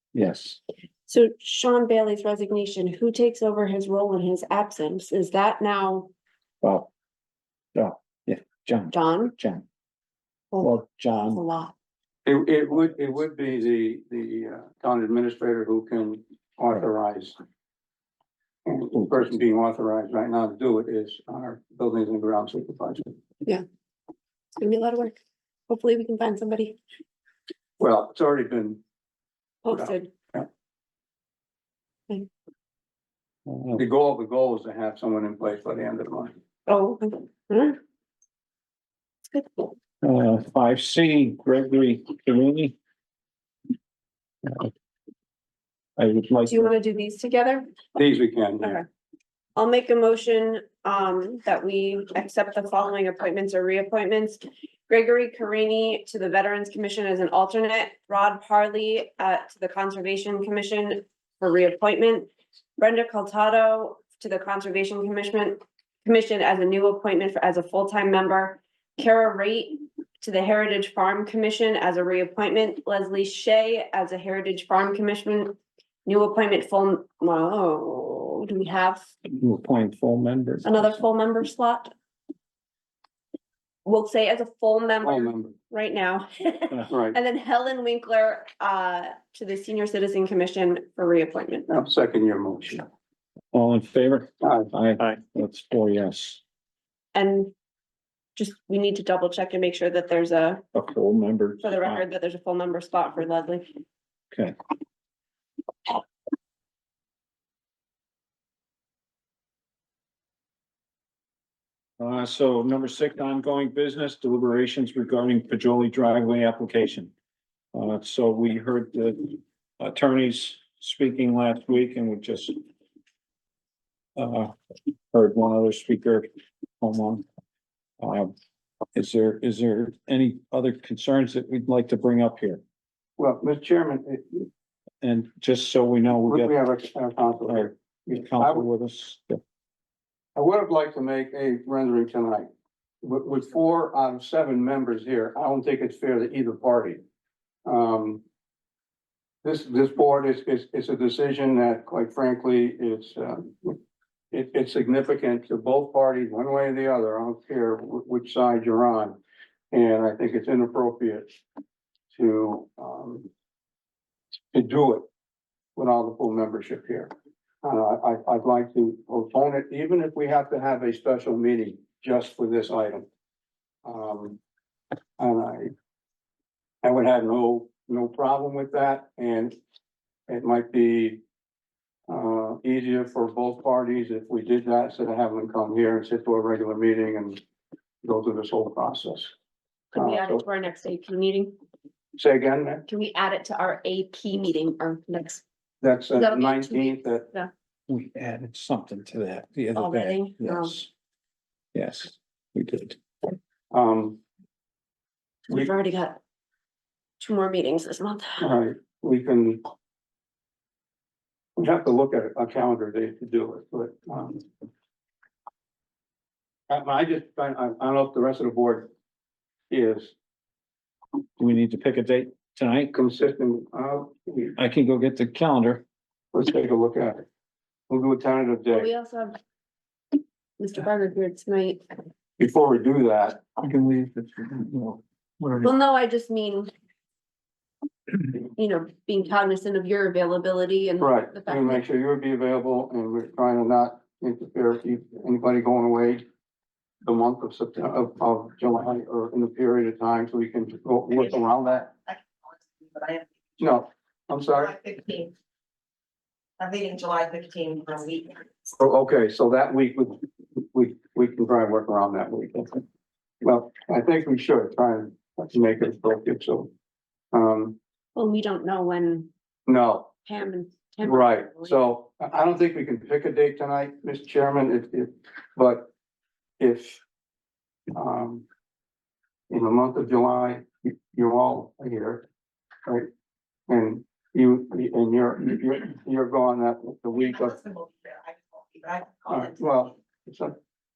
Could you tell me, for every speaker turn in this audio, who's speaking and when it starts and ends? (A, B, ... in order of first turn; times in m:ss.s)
0:00.1-0:00.6 A
0:01.1-0:06.1 B
0:06.6-0:06.9 A
0:07.7-0:09.6 A
0:08.9-0:09.3 B
0:10.5-0:11.7 B
0:10.6-0:11.4 A
0:12.2-0:17.4 C
0:18.6-0:23.2 C
0:18.9-0:19.3 A
0:24.6-0:25.2 B
0:25.7-0:26.8 B
0:27.8-0:28.8 C
0:29.6-0:30.1 B
0:29.7-0:30.5 C
0:33.5-0:33.8 A
0:33.7-0:36.3 C
0:36.7-0:37.8 B
0:39.3-0:39.7 B
0:40.0-0:42.8 A
0:44.4-0:44.7 A
0:46.0-0:46.7 A
0:46.5-0:47.7 B
0:47.9-0:48.8 C
0:48.6-0:48.8 B
0:49.6-1:19.0 B
1:19.2-1:21.0 A
1:20.6-1:21.9 B
1:23.8-1:31.7 B
1:25.0-1:25.5 C
1:26.9-1:27.2 C
1:31.7-1:32.9 C
1:33.5-1:36.4 A
1:34.4-1:34.7 C
1:37.1-1:37.5 B
1:38.4-1:40.6 B
1:40.7-1:42.0 A
1:41.6-1:43.8 B
1:52.0-1:57.1 A
1:57.7-2:02.6 A
2:04.2-2:04.5 A
2:05.1-2:06.3 A
2:06.8-2:07.2 A
2:08.0-2:08.3 A
2:08.9-2:12.6 A
2:13.2-2:14.5 C
2:15.0-2:16.5 A
2:16.2-2:18.6 C
2:17.5-2:19.4 A
2:20.4-2:22.5 C
2:23.0-2:27.0 C
2:27.6-2:28.2 C
2:29.4-2:33.8 C
2:34.3-2:39.2 C
2:39.7-2:41.3 C
2:42.1-2:43.3 C
2:44.5-2:45.0 C
2:45.8-2:47.1 C
2:47.6-2:53.1 C
2:53.8-2:54.4 C
2:55.2-2:55.7 C
2:56.8-2:59.6 C
3:00.3-3:01.2 C
3:02.1-3:07.4 C
3:08.0-3:09.3 C
3:09.9-3:11.5 B
3:09.9-3:10.4 C
3:12.2-3:12.8 C
3:12.9-3:15.4 B
3:15.8-3:17.3 C
3:16.1-3:17.5 B
3:17.9-3:20.9 A
3:19.7-3:20.8 B
3:21.7-3:23.0 A
3:23.7-3:24.2 C
3:25.5-3:26.2 B
3:27.2-3:28.5 B
3:28.4-3:29.7 C
3:31.6-3:34.5 C
3:36.7-3:38.9 C
3:39.7-3:40.1 C
3:41.4-3:42.9 A
3:42.9-3:44.6 C
3:44.6-3:45.8 A
3:46.3-3:47.2 C
3:47.9-3:48.9 C
3:48.7-3:49.4 B
3:50.6-3:51.8 B
3:52.4-3:53.5 C
3:53.6-3:55.7 A
3:55.6-3:56.7 B
3:58.5-4:01.8 B
4:01.0-4:06.2 C
4:07.0-4:11.9 C
4:11.8-4:13.6 D
4:13.6-4:14.7 C
4:14.5-4:15.3 D
4:16.6-4:18.5 D
4:18.8-4:22.8 C
4:23.4-4:26.7 C
4:27.3-4:27.8 C
4:28.1-4:29.3 B
4:29.6-4:30.1 C
4:30.2-4:31.8 B
4:31.0-4:35.9 C
4:36.6-4:37.0 C
4:37.9-4:38.4 C
4:39.5-4:42.3 C
4:43.7-4:47.6 C
4:47.2-4:49.9 D
4:49.3-4:50.6 C